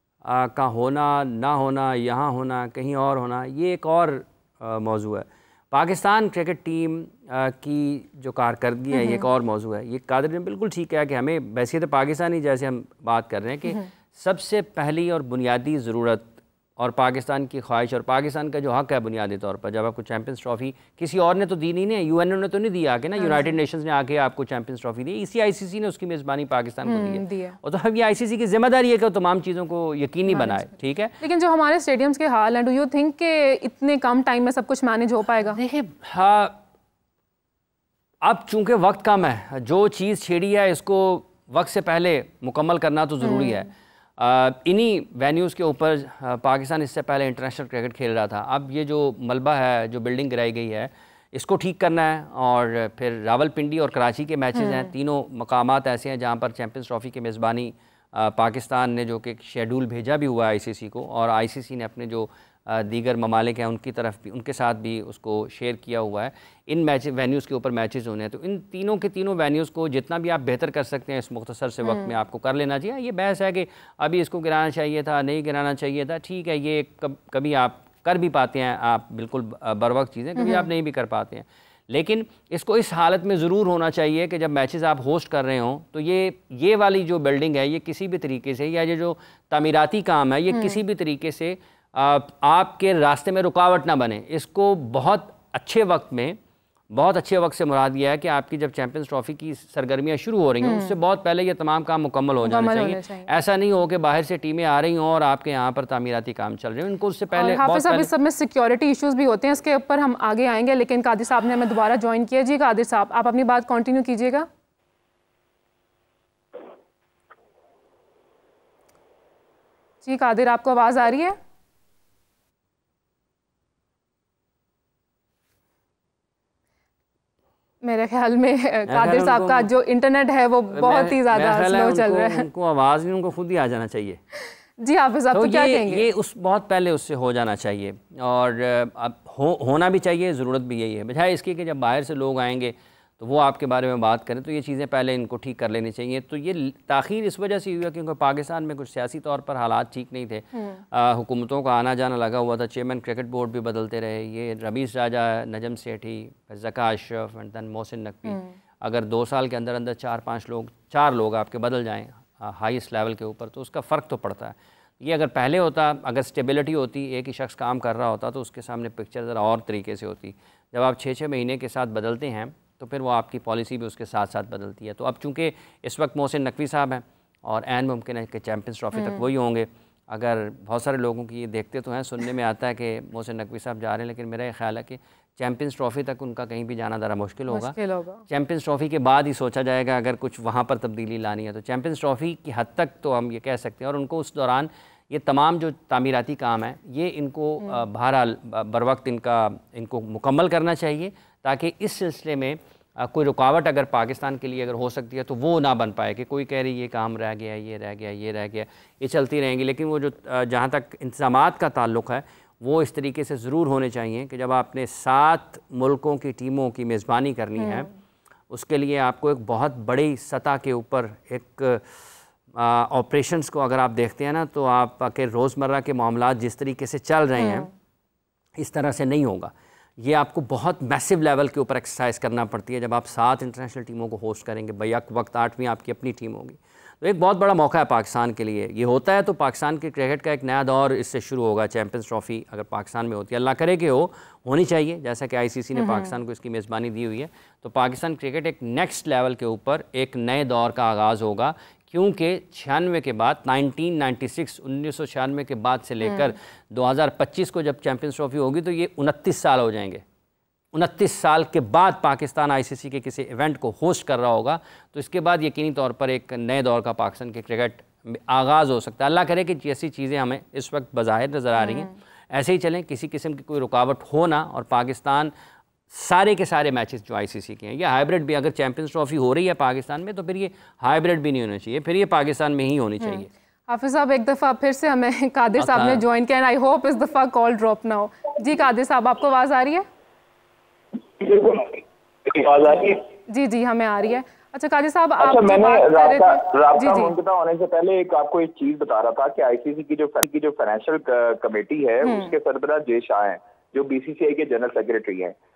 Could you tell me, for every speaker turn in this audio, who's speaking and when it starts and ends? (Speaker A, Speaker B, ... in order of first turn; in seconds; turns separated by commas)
Speaker A: 0.2-31.2, Speaker B: 8.9-9.2, Speaker B: 23.2-23.5, Speaker B: 26.8-27.6, Speaker B: 31.2-35.6, Speaker A: 35.4-36.6, Speaker A: 38.2-96.4, Speaker B: 43.2-43.6, Speaker B: 54.6-54.8, Speaker B: 80.4-80.7, Speaker A: 96.9-108.1, Speaker B: 100.6-100.9, Speaker B: 102.4-103.3, Speaker B: 107.3-114.5, Speaker B: 120.0-121.4, Speaker B: 127.8-132.5, Speaker A: 128.9-129.7, Speaker A: 130.7-134.2, Speaker B: 134.8-136.1, Speaker A: 135.3-187.8, Speaker B: 178.9-179.2, Speaker B: 187.5-188.2, Speaker A: 188.3-217.9, Speaker B: 217.6-217.9, Speaker A: 218.5-221.9, Speaker A: 222.5-227.7, Speaker B: 227.4-227.7, Speaker A: 228.6-260.0, Speaker B: 245.8-246.1, Speaker A: 260.7-275.3, Speaker B: 271.6-271.9, Speaker A: 275.9-283.3, Speaker B: 283.0-289.9, Speaker A: 285.6-286.0, Speaker C: 291.2-293.0, Speaker B: 293.3-297.1, Speaker C: 295.2-305.4, Speaker B: 302.0-302.3